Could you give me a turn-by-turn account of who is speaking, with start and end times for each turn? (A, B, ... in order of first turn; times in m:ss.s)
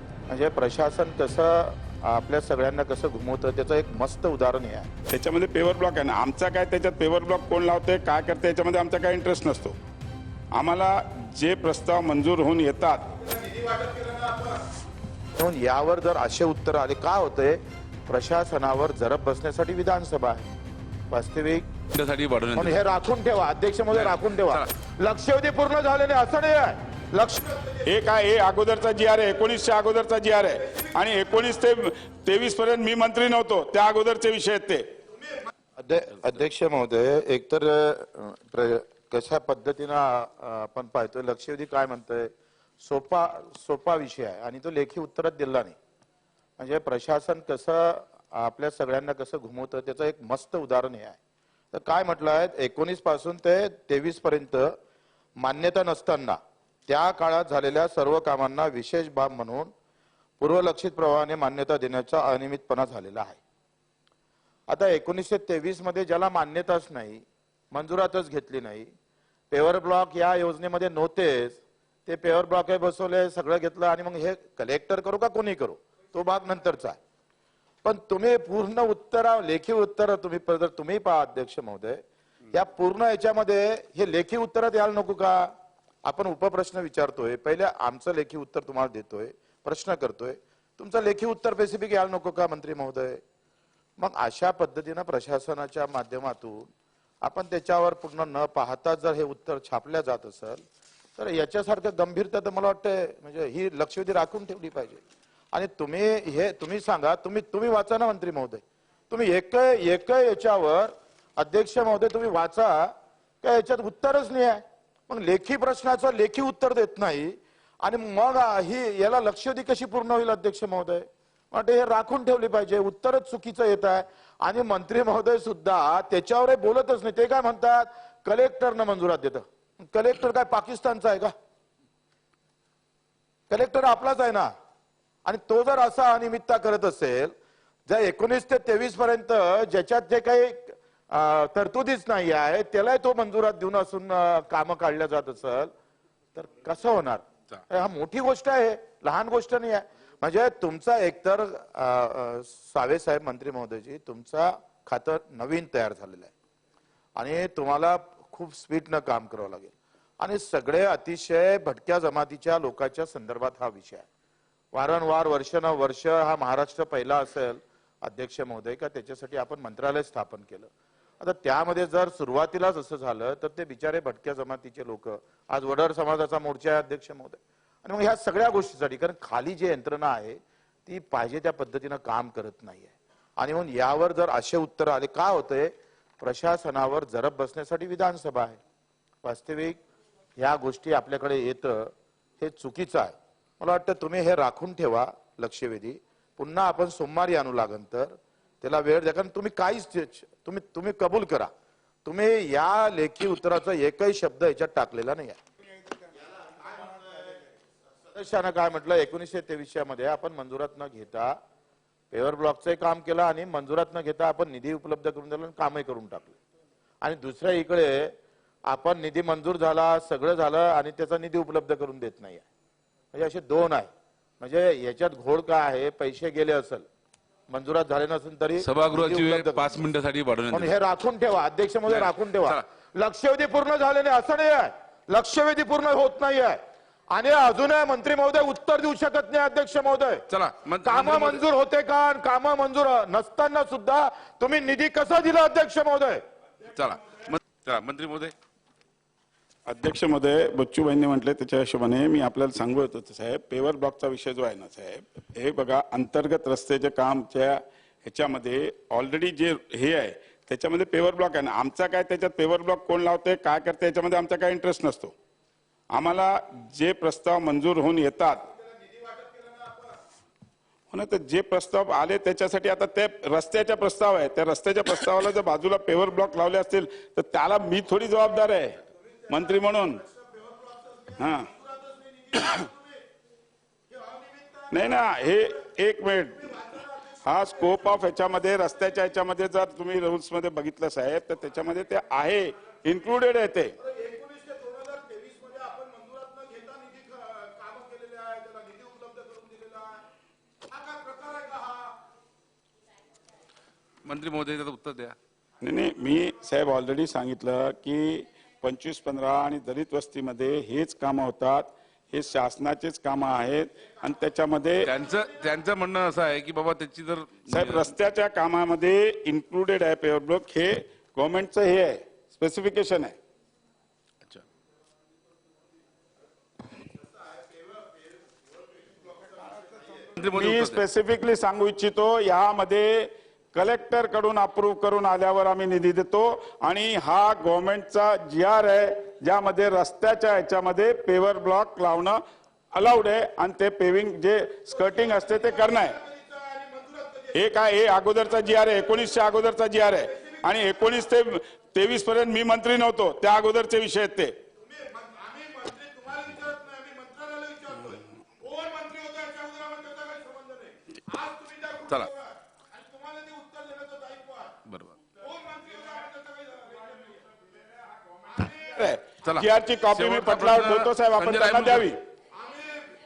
0:00.3-0:04.9 A
0:05.1-0:09.8 B
0:10.5-0:13.1 B
0:13.4-0:14.5 A
0:15.4-0:20.5 A
0:21.1-0:21.7 A
0:21.9-0:22.8 C
0:22.5-0:27.7 A
0:23.9-0:24.7 C
0:27.8-0:34.9 B
0:35.8-0:45.8 A
0:46.6-0:51.2 A
0:51.7-0:54.8 A
0:55.4-0:59.7 A
1:00.4-1:03.4 A
1:04.7-1:08.9 A
1:09.5-1:17.0 A
1:17.8-1:25.5 A
1:26.0-1:33.2 A
1:34.0-1:36.7 A
1:37.2-1:40.6 A
1:41.2-1:45.0 A
1:45.5-2:11.3 A
2:13.5-2:14.5 A
2:15.2-2:17.3 A
2:17.9-2:25.7 A
2:26.3-2:36.3 A
2:37.2-2:44.1 A
2:44.7-3:08.6 A
3:09.2-3:09.8 A
3:10.4-3:21.5 A
3:22.0-3:25.4 A
3:26.7-3:27.3 A
3:28.1-3:31.4 A
3:32.1-3:36.4 A
3:37.0-3:38.2 A
3:38.7-3:42.5 A
3:43.1-3:46.9 A
3:47.5-3:49.8 A
3:48.6-3:50.7 C
3:50.5-3:56.6 A
3:51.9-3:52.6 C
3:57.1-4:00.3 A
4:00.3-4:01.4 C
4:00.8-4:06.2 A
4:06.7-4:08.3 C
4:09.7-4:25.1 B
4:25.9-4:28.5 B
4:29.0-4:29.8 A
4:30.9-4:40.0 B
4:39.6-4:43.0 A
4:41.2-4:41.5 B
4:43.9-4:44.7 A
4:44.7-4:53.8 B
4:53.8-5:00.0 A
5:00.7-5:02.0 A
5:04.0-5:05.2 C
5:05.6-5:15.0 B
5:14.8-5:17.9 C
5:17.5-5:23.1 B
5:30.1-5:30.8 C
5:30.3-5:42.2 B
5:42.7-5:46.0 B
5:46.2-5:47.2 A
5:47.3-5:54.3 B
5:54.7-6:02.0 A
6:02.7-6:04.5 A
6:04.6-6:05.0 C
6:05.2-6:07.2 A
6:08.4-6:12.0 B
6:09.2-6:11.9 C